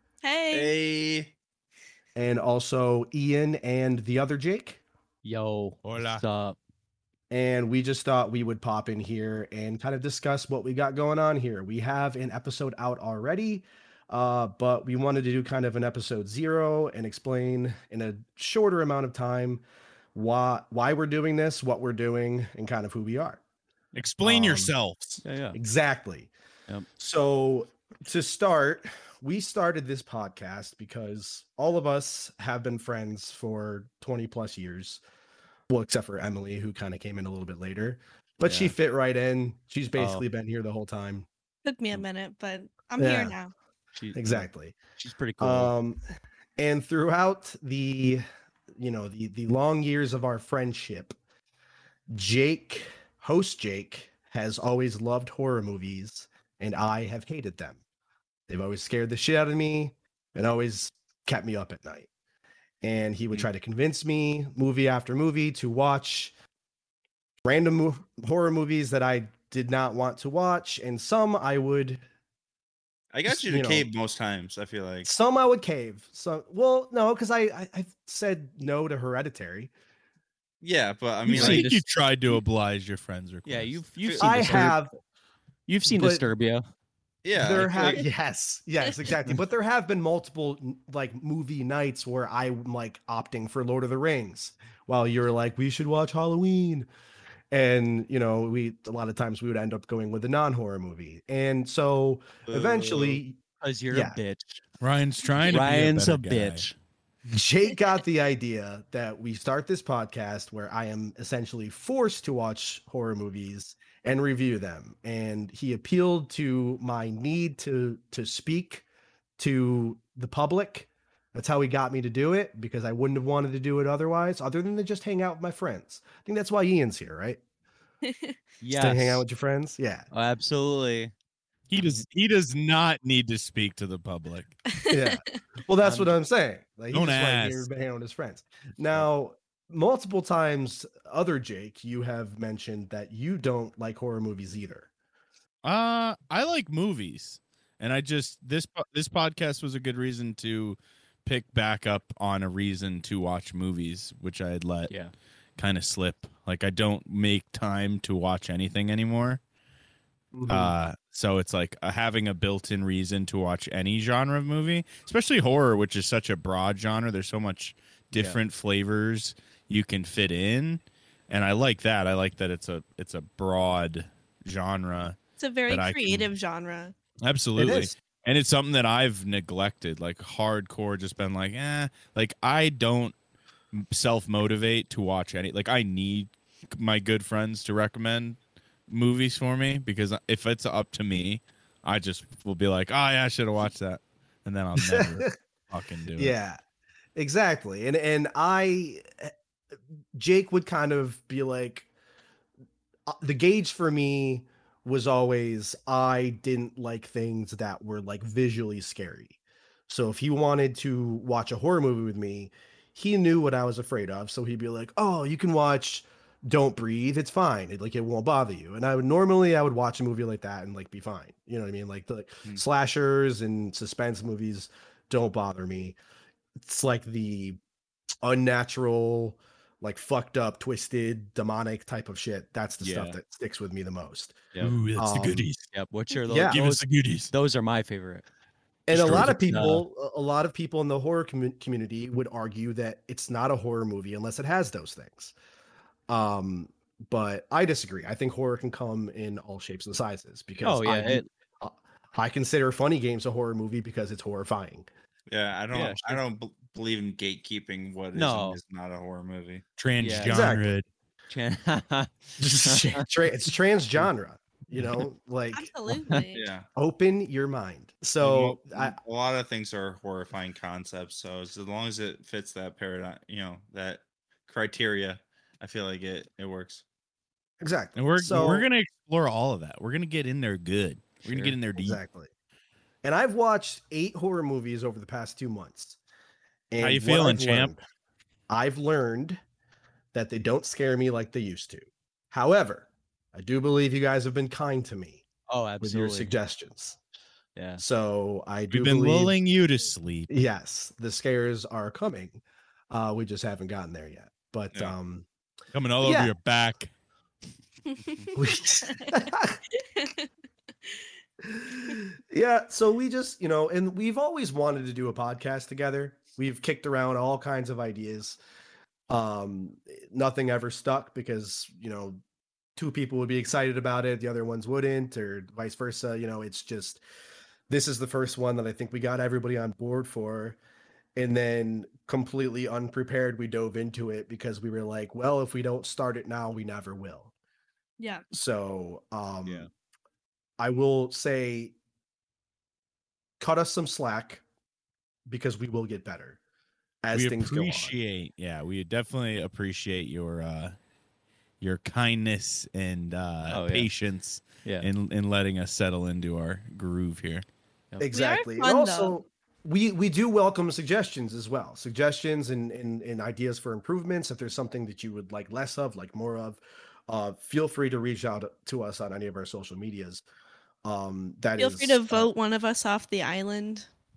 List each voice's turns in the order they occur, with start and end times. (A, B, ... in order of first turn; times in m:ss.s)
0:00.2-0:00.7 A
0:00.5-0:01.3 B
0:02.2-0:04.8 C
0:05.2-0:06.6 D
0:05.8-0:06.2 E
0:07.3-0:19.6 C
0:20.1-0:23.4 C
0:23.9-0:25.2 E
0:24.2-0:24.7 C
0:25.2-0:25.6 D
0:25.5-0:26.3 C
0:27.0-0:35.0 C
0:35.7-0:41.3 C
0:38.4-0:38.8 D
0:39.9-0:40.2 D
0:41.6-0:43.5 A
0:43.0-0:43.4 C
0:44.0-0:45.8 D
0:44.1-0:44.8 C
0:45.4-0:46.0 C
0:46.6-0:48.2 C
0:48.8-0:51.2 C
0:52.1-0:57.8 C
0:58.5-1:02.1 C
1:02.8-1:06.3 C
1:07.4-1:12.0 C
1:13.1-1:15.1 B
1:13.3-1:13.9 C
1:15.0-1:19.7 C
1:20.6-1:21.8 B
1:21.3-1:21.7 D
1:21.3-1:23.8 E
1:23.4-1:24.8 D
1:24.0-1:24.3 B
1:24.2-1:24.9 C
1:24.4-1:24.7 E
1:25.7-1:26.6 D
1:25.9-1:26.3 C
1:27.2-1:28.0 B
1:27.4-1:36.9 C
1:37.5-1:43.4 C
1:42.4-1:43.2 B
1:43.6-1:44.6 D
1:43.9-1:44.2 C
1:44.8-1:46.6 E
1:45.4-1:46.8 D
1:47.3-1:58.8 C
1:59.4-2:07.4 C
2:08.0-2:08.4 A
2:08.6-2:09.2 D
2:08.7-2:10.1 C
2:10.1-2:11.1 D
2:11.7-2:14.6 E
2:11.8-2:12.0 D
2:14.8-2:15.2 A
2:14.9-2:24.9 C
2:15.8-2:16.2 D
2:16.9-2:17.7 E
2:25.6-2:34.9 E
2:34.9-2:35.1 D
2:35.6-2:39.4 E
2:40.3-2:40.7 C
2:40.5-2:56.3 E
2:48.1-2:48.4 C
2:55.4-2:57.0 A
2:57.2-3:03.1 E
2:57.6-2:58.0 C
3:03.7-3:08.4 E
3:08.9-3:16.4 E
3:14.8-3:15.3 C
3:16.2-3:16.6 C
3:17.2-3:19.3 C
3:20.2-3:21.9 C
3:23.1-3:46.0 C
3:46.6-3:47.6 C
3:48.2-3:54.4 C
3:52.8-3:53.2 D
3:54.6-3:55.7 E
3:55.0-3:55.5 C
3:55.7-3:58.3 D
3:56.3-3:56.6 C
3:56.4-3:57.3 E
3:58.9-4:05.3 C
3:58.9-3:59.4 E
3:59.1-3:59.8 D
4:06.1-4:14.9 C
4:10.6-4:11.3 D
4:15.3-4:19.6 B
4:15.7-4:16.2 D
4:18.1-4:18.6 D
4:19.8-4:20.9 E
4:20.0-4:20.5 D
4:20.2-4:20.7 C
4:21.3-4:23.0 D
4:22.4-4:25.7 C
4:25.5-4:26.5 A
4:26.3-4:26.7 B
4:26.8-4:29.0 C
4:28.2-4:36.8 B
4:37.6-4:38.7 C
4:38.0-4:42.0 E
4:41.3-4:41.6 D
4:41.8-4:42.3 C
4:43.0-4:46.0 C
4:46.7-4:47.8 C
4:46.8-4:47.7 E
4:48.5-4:49.4 C
4:50.1-4:55.2 C
4:55.5-4:56.4 D
4:55.8-4:57.0 C
4:57.6-4:57.8 D
4:57.8-4:59.4 C
4:58.7-5:00.3 E
5:00.3-5:05.3 C
5:05.7-5:06.9 E
5:06.0-5:06.4 C
5:08.4-5:09.6 C
5:08.8-5:10.3 A
5:11.5-5:18.4 C
5:19.1-5:22.2 C
5:22.8-5:27.0 C
5:27.7-5:30.6 C
5:31.2-5:37.3 C
5:38.0-5:38.2 A
5:38.3-5:39.7 C
5:40.6-5:41.8 C
5:43.4-5:44.4 C
5:45.3-5:46.4 C
5:47.0-5:48.0 C
5:47.1-5:50.8 E
5:51.6-5:57.5 E
5:53.5-5:53.9 D
5:58.0-6:10.2 C
5:58.1-5:59.2 A
6:10.8-6:12.3 C
6:11.6-6:13.9 A